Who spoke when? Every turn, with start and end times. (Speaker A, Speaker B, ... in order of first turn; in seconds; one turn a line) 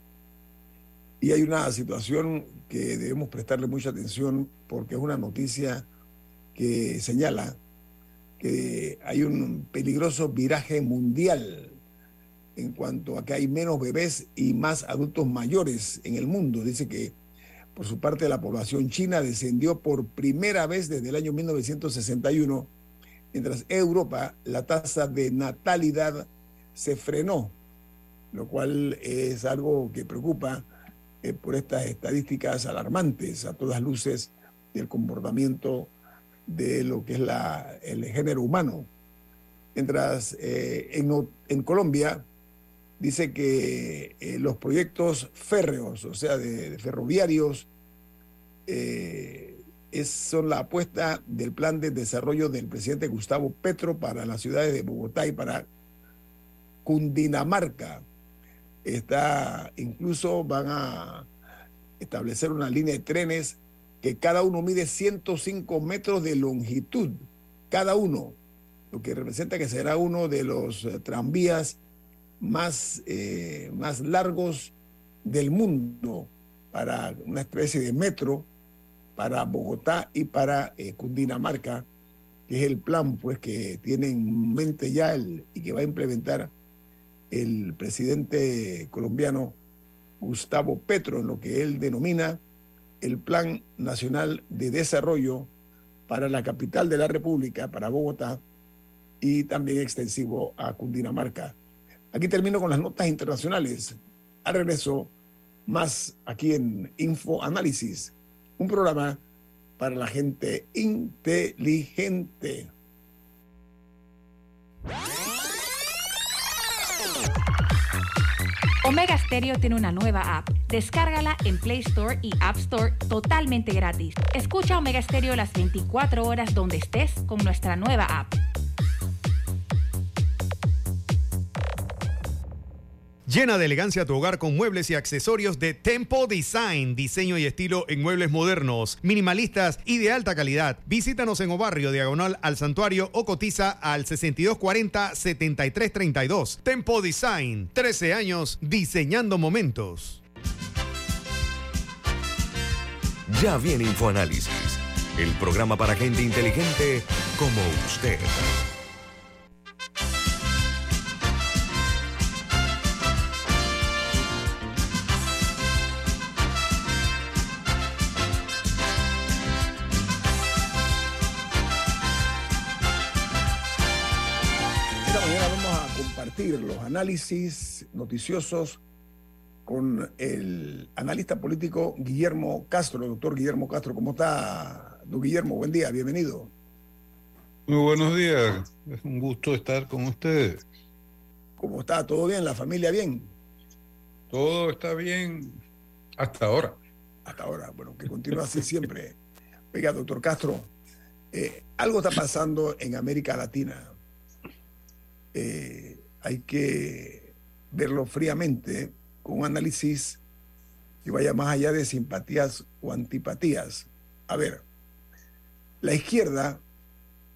Speaker A: 1.2-5.9
Speaker A: 6.5-7.6
Speaker A: 8.4-11.8
Speaker A: 12.6-17.1
Speaker A: 17.8-22.7
Speaker A: 23.3-27.6
Speaker A: 28.3-30.7
Speaker A: 31.2-35.9
Speaker A: 36.5-38.9
Speaker A: 39.8-42.3
Speaker A: 43.0-47.7
Speaker A: 48.7-55.7
Speaker A: 56.9-58.0
Speaker A: 58.8-61.3
Speaker A: 62.0-68.4
Speaker A: 68.9-71.8
Speaker A: 72.4-78.5
Speaker A: 79.2-81.9
Speaker A: 82.5-86.5
Speaker A: 87.3-89.6
Speaker A: 90.2-92.4
Speaker A: 93.0-95.5
Speaker A: 96.1-98.4
Speaker A: 99.2-101.6
Speaker A: 102.1-105.1
Speaker A: 105.7-109.2
Speaker A: 109.8-112.7
Speaker B: 118.8-128.4
Speaker C: 133.3-150.2
Speaker D: 153.3-158.5
Speaker A: 175.1-178.8
Speaker A: 179.7-186.5
Speaker E: 187.7-190.6
Speaker A: 191.6-193.3
Speaker E: 194.3-195.6
Speaker E: 196.2-196.8
Speaker A: 197.2-199.2
Speaker A: 199.7-200.7
Speaker A: 201.3-203.9
Speaker A: 205.3-210.2
Speaker A: 211.1-214.6
Speaker A: 215.8-216.6